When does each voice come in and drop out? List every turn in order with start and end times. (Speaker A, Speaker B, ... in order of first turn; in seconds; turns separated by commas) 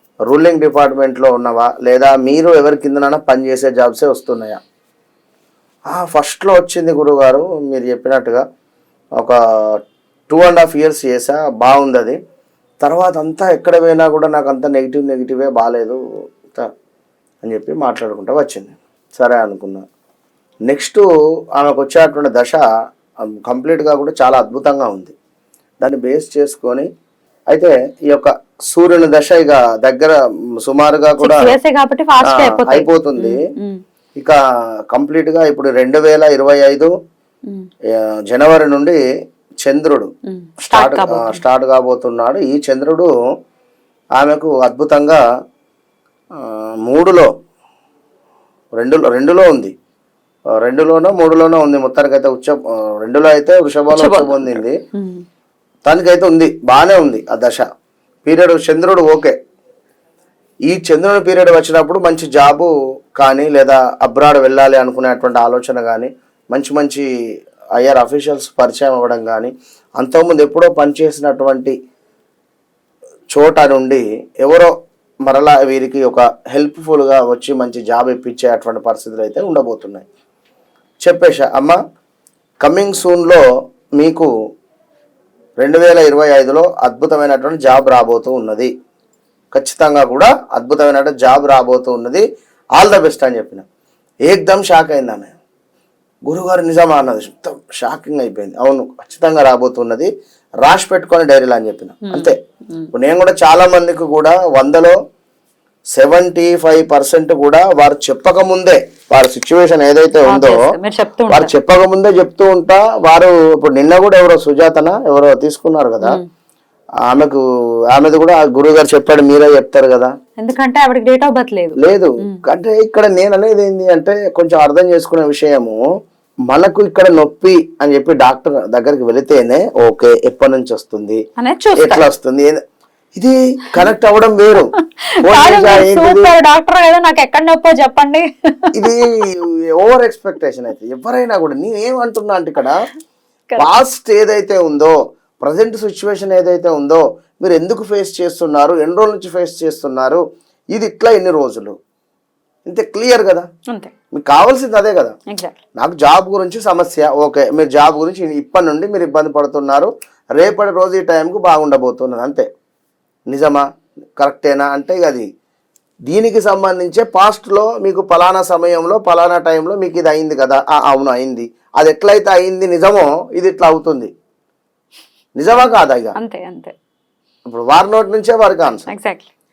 Speaker A: 0.3-4.6, Speaker A: 5.9-8.4, Speaker A: 9.2-9.8, Speaker A: 10.3-12.2, Speaker A: 12.8-16.7, Speaker A: 17.4-19.8, Speaker A: 20.7-22.6, Speaker A: 23.2-25.1, Speaker A: 25.8-26.9, Speaker A: 27.5-31.5, Speaker B: 31.2-33.8, Speaker A: 32.2-33.4, Speaker A: 34.9-36.9, Speaker A: 38.0-39.0, Speaker A: 39.6-40.1, Speaker B: 40.3-41.4, Speaker A: 40.7-43.1, Speaker A: 44.2-45.2, Speaker A: 46.4-47.3, Speaker A: 48.8-49.7, Speaker A: 50.5-54.8, Speaker B: 53.9-55.2, Speaker A: 55.9-57.6, Speaker A: 58.2-59.3, Speaker A: 60.7-67.1, Speaker A: 67.8-71.7, Speaker A: 73.3-74.7, Speaker A: 75.2-80.0, Speaker A: 81.0-81.8, Speaker A: 82.6-83.4, Speaker A: 84.0-84.3, Speaker A: 85.6-88.7, Speaker A: 89.5-92.2, Speaker A: 92.8-93.6, Speaker A: 94.2-95.3, Speaker A: 96.2-100.1, Speaker A: 100.6-102.3, Speaker B: 102.0-102.9, Speaker A: 102.9-104.9, Speaker A: 105.9-110.6, Speaker B: 110.2-111.5, Speaker A: 111.3-116.2, Speaker B: 116.0-116.3, Speaker A: 117.1-117.4, Speaker A: 117.9-120.1, Speaker B: 120.4-122.4, Speaker A: 121.8-125.8, Speaker A: 126.5-131.2, Speaker B: 131.4-132.1, Speaker A: 131.8-132.6, Speaker A: 133.2-136.3, Speaker B: 135.2-138.9, Speaker A: 138.7-142.8, Speaker A: 143.6-150.2, Speaker A: 150.7-151.7, Speaker A: 152.7-153.5, Speaker A: 154.1-155.1, Speaker B: 155.3-155.6, Speaker A: 155.8-162.4, Speaker A: 163.3-163.6, Speaker A: 164.2-165.2, Speaker A: 166.1-174.1, Speaker A: 175.4-176.2, Speaker B: 176.2-176.7, Speaker A: 177.5-178.9, Speaker B: 178.8-179.3